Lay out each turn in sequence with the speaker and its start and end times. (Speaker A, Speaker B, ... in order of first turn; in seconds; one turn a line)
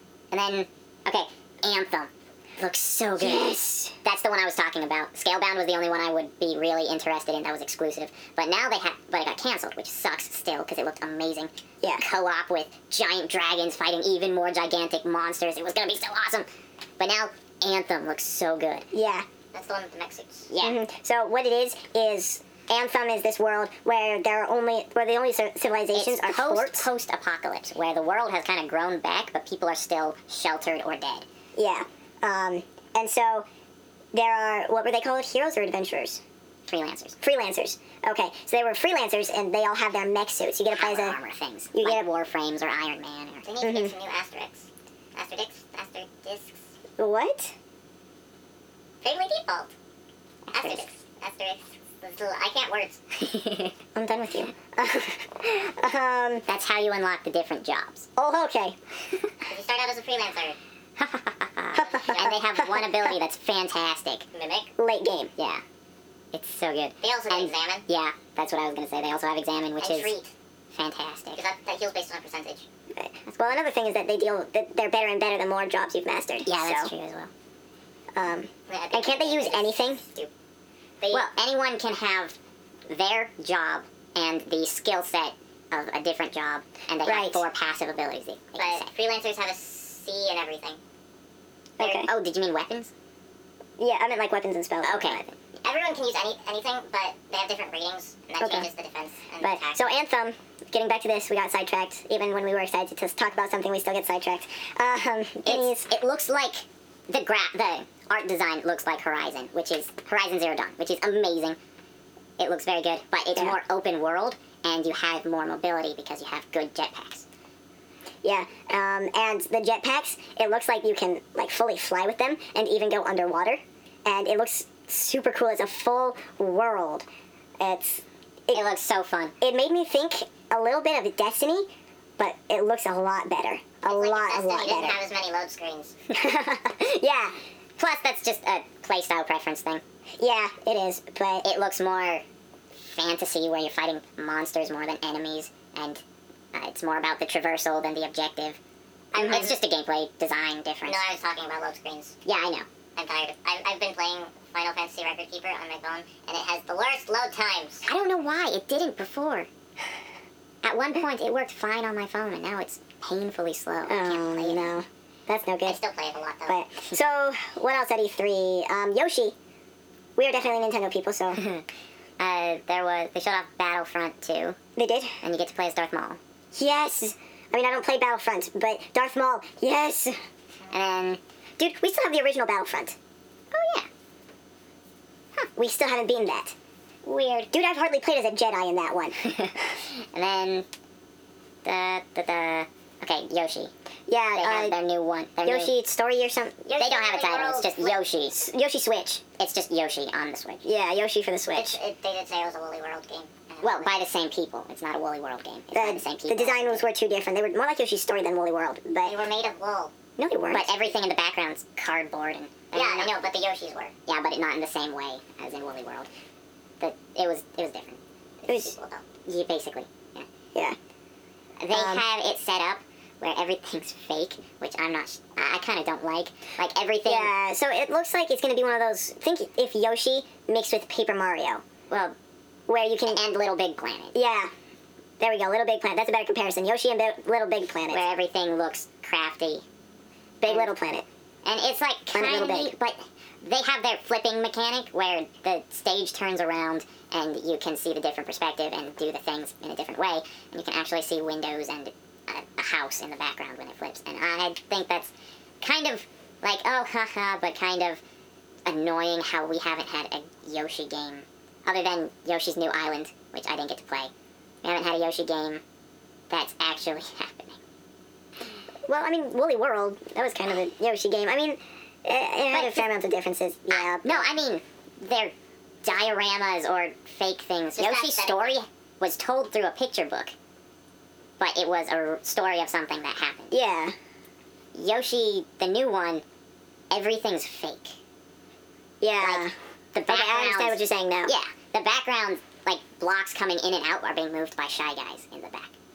Speaker A: 0.3-16.5
Speaker B: 3.2-4.0
Speaker A: 17.0-18.9
Speaker B: 18.9-19.3
Speaker C: 19.5-20.5
Speaker A: 20.5-20.8
Speaker B: 20.6-26.9
Speaker A: 25.9-31.3
Speaker B: 31.6-33.5
Speaker B: 34.1-36.2
Speaker A: 36.7-37.2
Speaker B: 37.2-41.2
Speaker A: 40.7-43.5
Speaker B: 41.7-42.1
Speaker C: 43.5-46.6
Speaker B: 43.6-44.0
Speaker B: 47.0-47.5
Speaker C: 49.0-49.7
Speaker C: 50.5-53.0
Speaker A: 50.5-50.9
Speaker A: 53.2-53.7
Speaker B: 54.0-56.5
Speaker A: 56.5-58.1
Speaker B: 58.2-58.8
Speaker C: 59.5-60.6
Speaker A: 61.0-64.3
Speaker B: 61.8-62.2
Speaker C: 61.9-62.5
Speaker B: 62.8-63.1
Speaker C: 64.3-64.7
Speaker B: 64.8-65.3
Speaker A: 65.4-65.6
Speaker A: 66.3-70.1
Speaker C: 67.0-67.9
Speaker C: 69.8-70.3
Speaker A: 70.7-71.5
Speaker C: 71.3-72.7
Speaker B: 73.0-76.9
Speaker A: 76.5-77.3
Speaker B: 78.2-80.0
Speaker C: 78.7-80.3
Speaker C: 81.0-81.3
Speaker A: 81.1-82.4
Speaker A: 82.9-88.9
Speaker B: 87.0-87.4
Speaker C: 88.6-90.8
Speaker B: 91.8-92.1
Speaker A: 91.8-92.9
Speaker B: 93.8-95.2
Speaker A: 94.8-95.3
Speaker C: 95.6-100.0
Speaker B: 98.4-98.7
Speaker B: 99.4-105.9
Speaker A: 105.5-111.6
Speaker A: 112.4-117.3
Speaker B: 118.2-127.1
Speaker B: 127.6-128.7
Speaker A: 128.5-129.3
Speaker B: 129.4-135.1
Speaker C: 133.8-135.9
Speaker B: 136.1-137.3
Speaker A: 137.8-139.8
Speaker B: 140.2-141.5
Speaker A: 141.4-142.2
Speaker A: 142.9-146.0
Speaker A: 146.5-148.6
Speaker C: 149.1-149.6
Speaker B: 149.2-149.5
Speaker A: 149.2-151.1
Speaker C: 150.9-152.2
Speaker A: 152.2-152.7
Speaker C: 153.0-157.9
Speaker A: 157.8-159.5
Speaker A: 160.6-164.8
Speaker B: 163.9-165.8
Speaker C: 165.7-166.6
Speaker B: 166.5-169.3
Speaker B: 170.2-171.4
Speaker A: 171.4-171.7
Speaker A: 172.2-174.6
Speaker B: 174.8-175.2
Speaker A: 175.2-176.2
Speaker B: 176.6-180.2
Speaker A: 180.7-181.2
Speaker B: 181.6-183.0
Speaker A: 183.5-183.9
Speaker B: 185.6-186.6
Speaker A: 187.1-187.5
Speaker B: 187.4-189.2
Speaker A: 189.2-190.7
Speaker A: 191.7-193.7
Speaker B: 194.1-194.8
Speaker A: 194.4-195.8
Speaker B: 195.4-197.0
Speaker C: 196.7-198.0
Speaker A: 196.8-198.5
Speaker B: 197.7-199.2
Speaker A: 199.4-200.7
Speaker B: 200.6-201.8
Speaker C: 201.6-203.9
Speaker B: 203.6-203.9
Speaker A: 203.8-206.8
Speaker B: 205.7-209.2
Speaker C: 209.1-209.9
Speaker B: 210.2-210.8
Speaker A: 210.5-213.1
Speaker C: 212.7-213.9
Speaker A: 214.1-216.1
Speaker A: 216.8-218.0
Speaker B: 218.5-218.8
Speaker C: 218.5-219.1
Speaker A: 219.1-220.3
Speaker A: 221.6-227.3
Speaker B: 221.7-222.1
Speaker B: 227.1-231.6
Speaker A: 231.9-232.2
Speaker B: 232.7-233.2
Speaker A: 233.1-234.2
Speaker B: 234.1-234.5
Speaker B: 235.2-238.1
Speaker A: 237.9-239.7
Speaker B: 240.4-241.1
Speaker A: 240.4-240.7
Speaker A: 241.4-258.0
Speaker B: 242.1-242.7
Speaker A: 258.7-264.1
Speaker A: 264.6-265.6
Speaker A: 266.3-267.6
Speaker B: 268.9-274.3
Speaker A: 272.5-272.9
Speaker A: 273.7-280.3
Speaker C: 277.8-278.6
Speaker A: 281.4-283.6
Speaker B: 283.5-283.9
Speaker A: 284.7-286.2
Speaker A: 286.9-288.0
Speaker B: 289.0-289.5
Speaker A: 289.2-295.7
Speaker B: 290.1-291.3